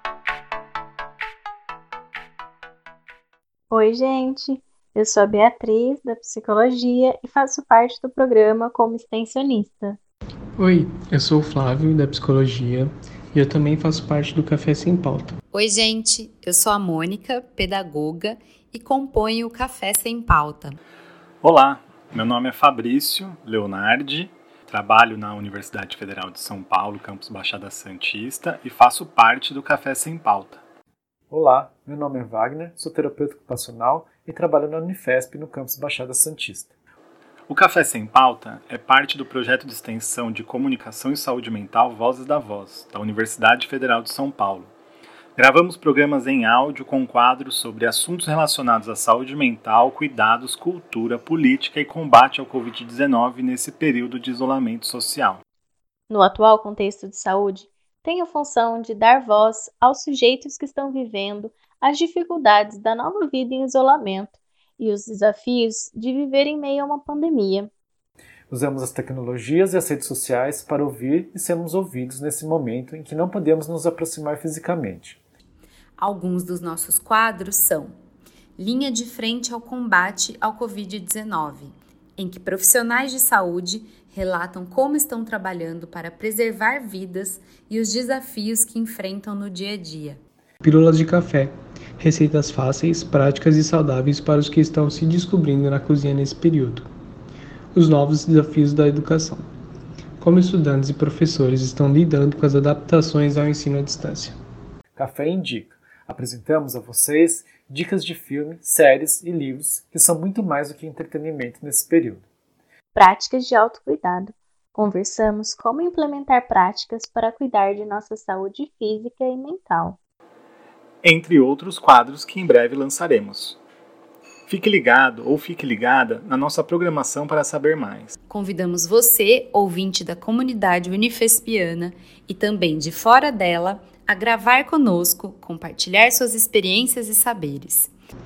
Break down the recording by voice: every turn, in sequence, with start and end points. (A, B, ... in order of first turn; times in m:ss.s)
0:03.7-0:10.0 A
0:10.6-0:15.4 B
0:15.5-0:20.8 C
0:21.4-0:30.6 D
0:31.3-0:36.7 E
0:37.5-0:44.7 D
0:45.4-0:55.4 D
0:56.1-1:07.7 A
1:08.5-1:15.2 E
1:16.0-1:17.9 C
1:18.6-1:30.2 C
1:30.6-1:36.9 B
1:37.7-1:39.4 B
1:40.2-1:44.4 B
1:45.0-1:52.2 E
1:52.9-2:00.0 A
2:01.0-2:03.6 D
2:04.5-2:08.1 D
2:08.3-2:17.9 C